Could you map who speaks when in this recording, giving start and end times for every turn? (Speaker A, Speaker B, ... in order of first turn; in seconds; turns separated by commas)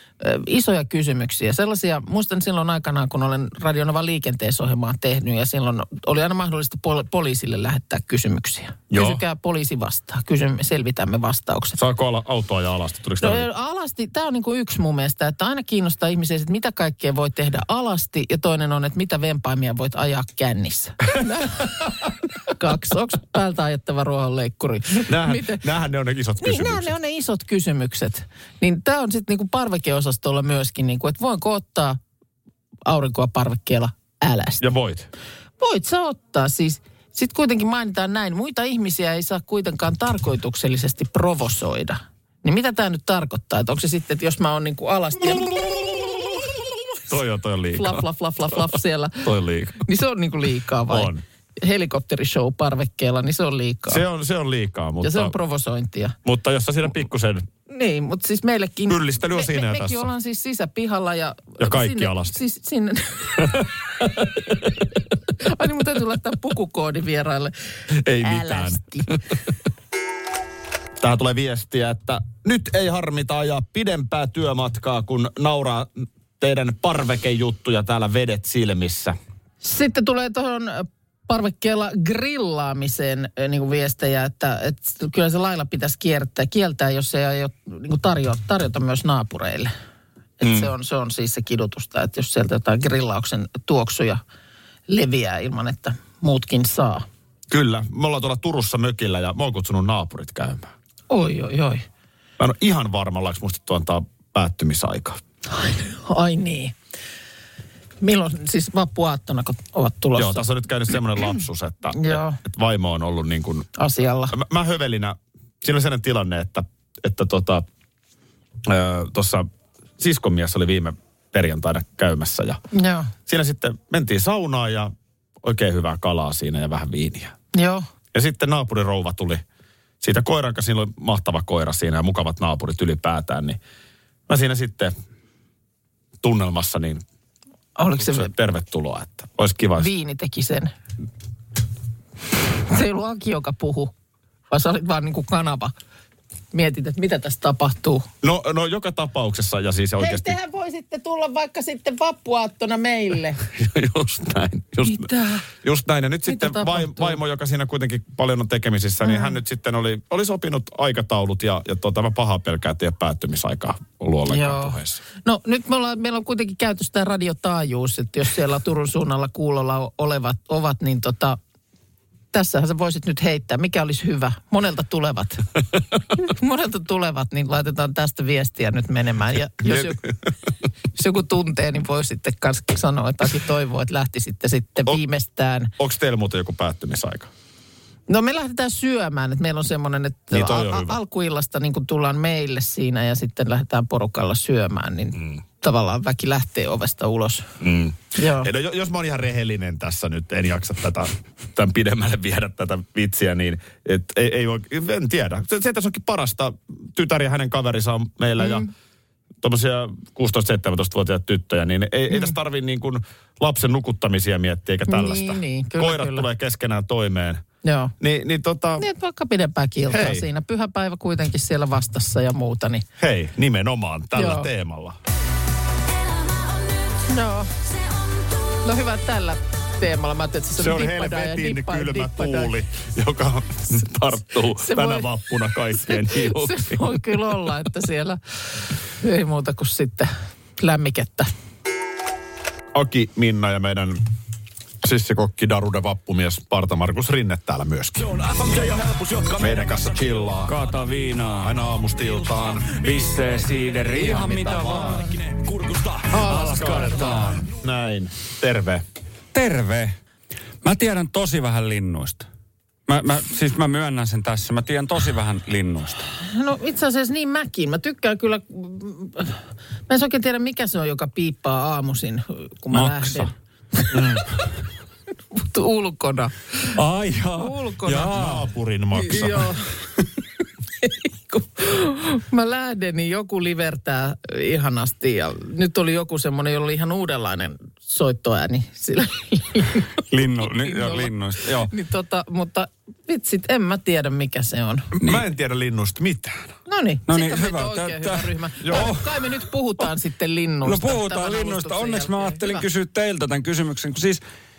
Speaker A: 0.2-11.8, Speaker B: 8.9-9.2, Speaker B: 11.8-13.5, Speaker A: 13.2-25.6, Speaker B: 25.0-26.9, Speaker A: 26.4-32.0, Speaker A: 32.9-34.6, Speaker B: 34.6-35.1, Speaker A: 35.6-45.9, Speaker B: 45.4-46.3, Speaker B: 47.1-49.8, Speaker A: 47.7-49.2, Speaker A: 49.8-54.0, Speaker B: 50.9-51.2, Speaker B: 53.9-55.4, Speaker A: 55.0-56.1, Speaker B: 56.2-57.5, Speaker A: 57.7-63.7, Speaker B: 58.9-60.1, Speaker B: 61.6-62.4, Speaker A: 65.4-67.5, Speaker B: 68.0-69.2, Speaker A: 68.2-69.1, Speaker B: 71.0-79.2, Speaker A: 79.6-89.7, Speaker A: 90.4-94.2, Speaker B: 90.4-90.7, Speaker A: 94.9-97.0, Speaker B: 97.5-100.7, Speaker A: 101.1-101.8, Speaker B: 102.4-105.2, Speaker A: 105.5-106.7, Speaker A: 108.0-110.4, Speaker B: 110.1-113.7, Speaker A: 111.9-112.4, Speaker A: 113.8-114.3, Speaker B: 114.3-117.7, Speaker B: 118.6-119.5, Speaker B: 120.0-122.6, Speaker A: 122.7-123.1, Speaker B: 123.3-127.3, Speaker A: 127.5-127.8, Speaker B: 128.1-129.4, Speaker B: 130.0-133.6, Speaker B: 134.3-134.9, Speaker B: 136.2-137.0, Speaker A: 137.8-138.3, Speaker B: 138.0-139.9, Speaker A: 139.8-140.7, Speaker A: 142.7-143.9, Speaker A: 144.5-145.7, Speaker A: 146.5-148.1, Speaker B: 148.2-150.4, Speaker A: 150.0-153.4, Speaker B: 153.5-155.1, Speaker A: 154.8-155.4, Speaker B: 155.6-165.0, Speaker A: 156.2-157.2, Speaker A: 159.0-159.3, Speaker A: 164.3-171.4, Speaker A: 172.3-175.5, Speaker A: 176.2-180.0, Speaker B: 179.6-179.9, Speaker A: 180.9-185.7, Speaker B: 185.8-187.3, Speaker A: 188.1-197.5, Speaker B: 190.3-191.0, Speaker B: 197.6-208.7, Speaker A: 198.2-198.5, Speaker A: 208.4-208.7, Speaker B: 209.4-217.4, Speaker A: 214.9-216.2, Speaker A: 217.6-217.9, Speaker B: 218.0-218.9, Speaker A: 218.8-222.8, Speaker B: 219.9-220.2, Speaker B: 223.0-225.0, Speaker A: 224.2-224.5, Speaker A: 227.0-227.5, Speaker A: 228.6-232.5, Speaker B: 230.6-236.9, Speaker A: 234.6-235.1, Speaker A: 235.8-238.2, Speaker A: 239.0-241.3, Speaker B: 242.7-244.0, Speaker B: 244.8-248.1, Speaker C: 248.4-249.3, Speaker B: 249.3-250.6, Speaker C: 250.4-251.6, Speaker B: 251.4-252.9, Speaker C: 252.7-257.4, Speaker B: 253.8-255.1, Speaker A: 254.8-255.1, Speaker B: 256.1-258.8, Speaker C: 259.3-259.9, Speaker C: 260.6-262.3, Speaker C: 262.9-266.1, Speaker A: 266.2-274.0, Speaker C: 272.7-273.3, Speaker B: 273.9-274.2, Speaker A: 275.3-276.7, Speaker C: 276.7-278.4, Speaker A: 277.4-278.2, Speaker B: 278.1-279.6, Speaker A: 278.9-279.7, Speaker A: 280.8-294.9, Speaker C: 290.1-291.7, Speaker B: 295.0-296.4, Speaker A: 296.6-302.6, Speaker C: 297.1-299.9, Speaker B: 298.6-298.9, Speaker C: 300.6-304.2